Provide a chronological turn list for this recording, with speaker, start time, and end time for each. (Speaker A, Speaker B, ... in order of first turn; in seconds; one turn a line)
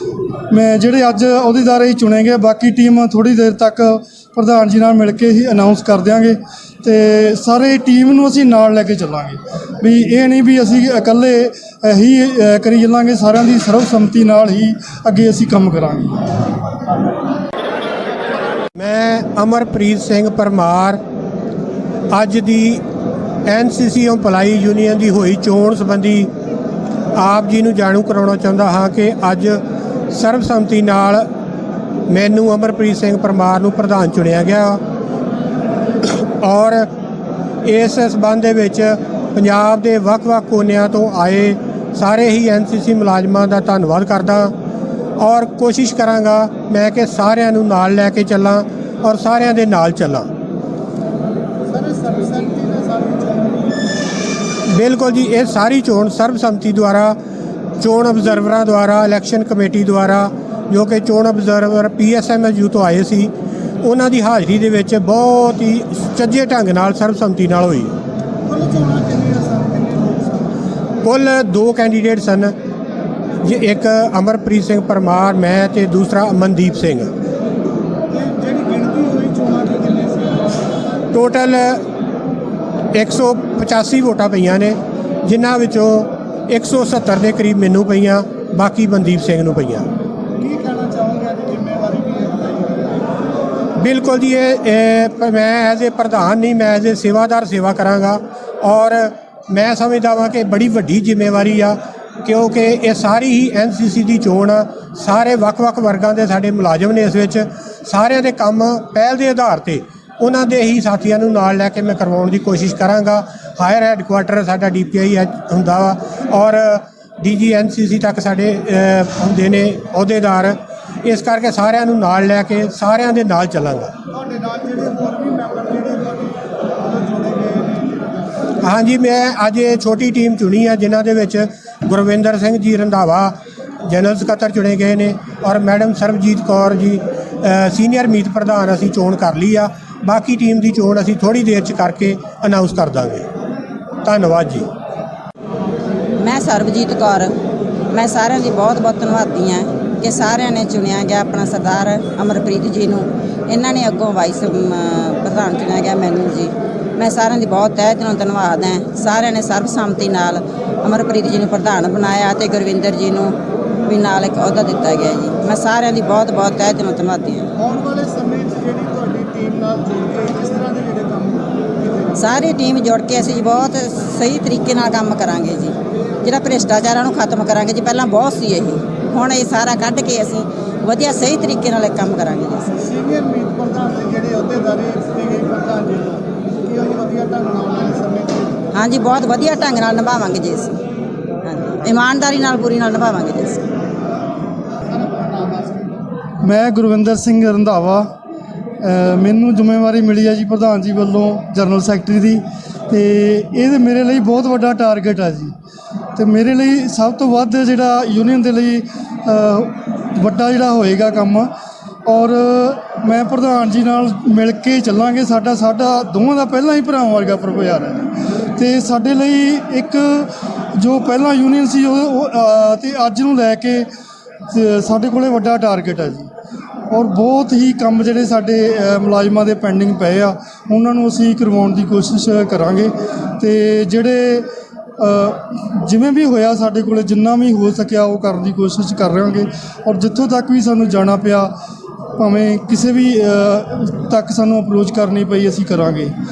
Speaker A: 0.5-16.2
Speaker B: 18.8-21.0
Speaker B: 22.1-22.8
Speaker B: 23.5-26.3
Speaker B: 27.1-31.3
Speaker B: 32.1-34.8
Speaker B: 36.2-36.9
Speaker B: 37.6-44.5
Speaker B: 45.2-50.3
Speaker C: 51.7-53.9
Speaker B: 54.7-57.2
Speaker B: 57.8-68.0
Speaker C: 68.5-70.5
Speaker B: 71.0-72.5
Speaker B: 73.4-77.1
Speaker C: 78.1-80.7
Speaker B: 81.1-81.8
Speaker B: 82.9-89.9
Speaker C: 90.4-93.1
Speaker B: 93.8-123.9
Speaker C: 124.1-128.3
Speaker B: 128.6-133.3
Speaker B: 133.9-143.3
Speaker B: 144.1-144.7
Speaker D: 146.2-147.3
Speaker D: 147.9-167.5
Speaker C: 167.6-172.4
Speaker D: 172.2-182.7
Speaker C: 182.8-188.6
Speaker D: 188.7-190.7
Speaker D: 191.4-193.6
Speaker C: 194.9-196.1
Speaker A: 196.4-198.1
Speaker A: 198.8-205.5
Speaker A: 206.2-211.5
Speaker A: 212.1-223.9
Speaker A: 224.5-226.3
Speaker A: 226.9-234.5
Speaker A: 235.0-241.5
Speaker A: 242.2-246.2